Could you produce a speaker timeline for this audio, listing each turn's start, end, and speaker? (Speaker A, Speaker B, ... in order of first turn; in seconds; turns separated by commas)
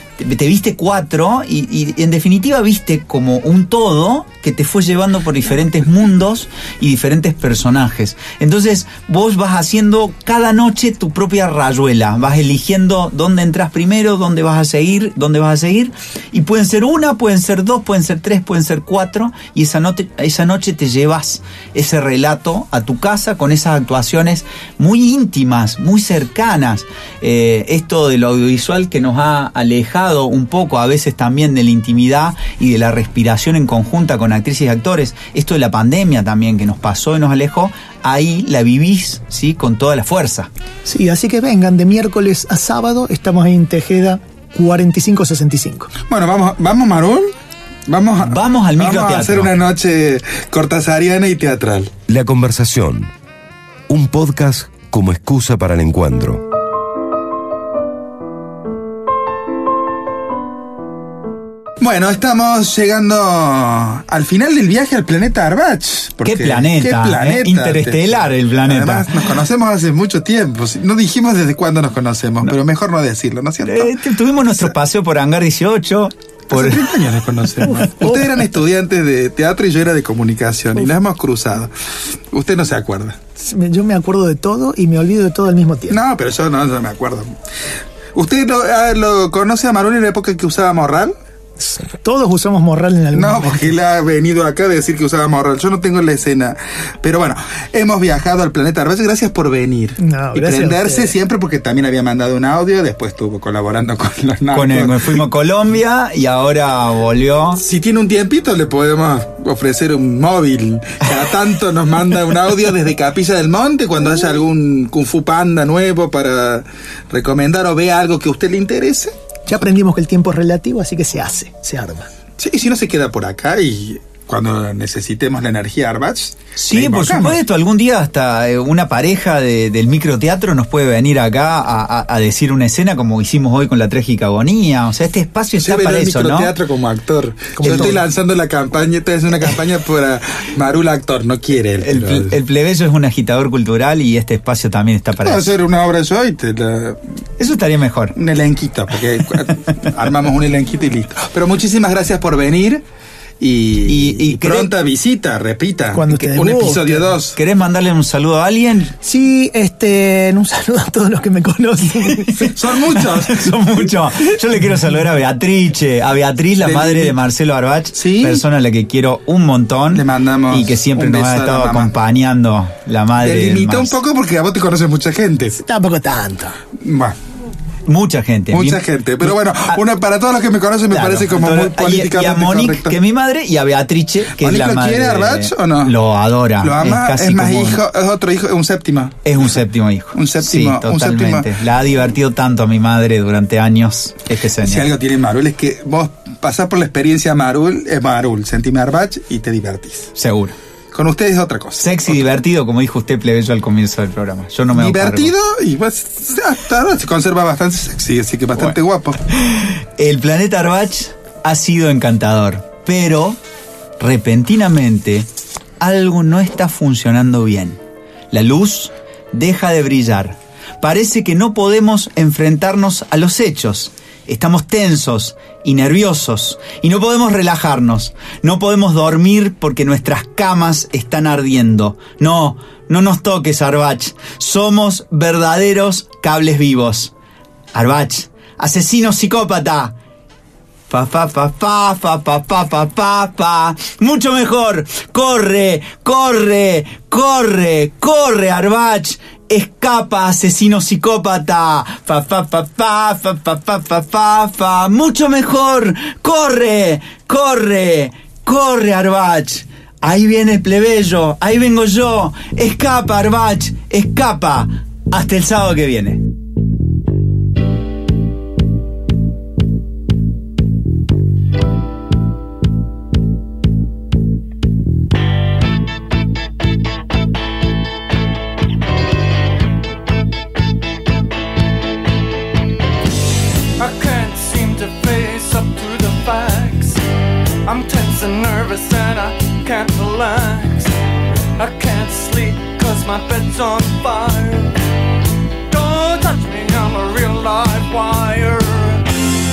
Speaker A: 0.2-40.5, Speaker B: 40.8-45.9, Speaker C: 46.0-47.3, Speaker C: 47.9-51.9, Speaker A: 48.2-49.5, Speaker D: 52.1-53.1, Speaker D: 53.9-56.4, Speaker C: 61.8-74.7, Speaker A: 66.2-69.2, Speaker A: 73.6-76.8, Speaker C: 76.5-83.2, Speaker B: 77.7-78.3, Speaker B: 83.4-86.0, Speaker C: 85.9-87.3, Speaker C: 88.1-91.1, Speaker B: 91.6-93.7, Speaker C: 93.1-105.2, Speaker B: 100.0-101.1, Speaker A: 104.5-107.6, Speaker C: 107.6-119.1, Speaker B: 119.5-122.1, Speaker C: 122.4-127.4, Speaker A: 126.6-136.5, Speaker C: 135.6-142.4, Speaker B: 137.5-138.0, Speaker A: 137.6-137.9, Speaker A: 141.8-145.5, Speaker C: 145.2-147.0, Speaker A: 147.4-148.1, Speaker C: 148.1-152.8, Speaker C: 153.4-157.4, Speaker A: 153.8-154.7, Speaker B: 155.9-157.0, Speaker A: 157.3-158.9, Speaker B: 159.0-162.5, Speaker A: 162.1-174.0, Speaker C: 162.5-163.7, Speaker C: 166.6-167.2, Speaker C: 167.9-168.4, Speaker C: 169.9-171.9, Speaker C: 173.2-175.6, Speaker B: 175.6-176.6, Speaker C: 176.8-177.2, Speaker A: 177.9-179.8, Speaker C: 178.5-183.0, Speaker A: 180.9-187.8, Speaker C: 184.4-185.9, Speaker C: 186.6-189.4, Speaker A: 189.2-194.9, Speaker C: 190.1-191.5, Speaker C: 194.6-200.1, Speaker A: 200.2-200.5, Speaker C: 200.9-202.3, Speaker A: 201.8-205.3, Speaker C: 204.7-209.2, Speaker A: 209.3-213.4, Speaker A: 214.0-215.2, Speaker A: 215.8-217.8, Speaker A: 218.3-237.1, Speaker A: 237.7-239.9, Speaker A: 240.9-266.2, Speaker E: 283.8-287.0, Speaker E: 287.6-290.9, Speaker E: 291.6-294.7, Speaker E: 295.7-299.0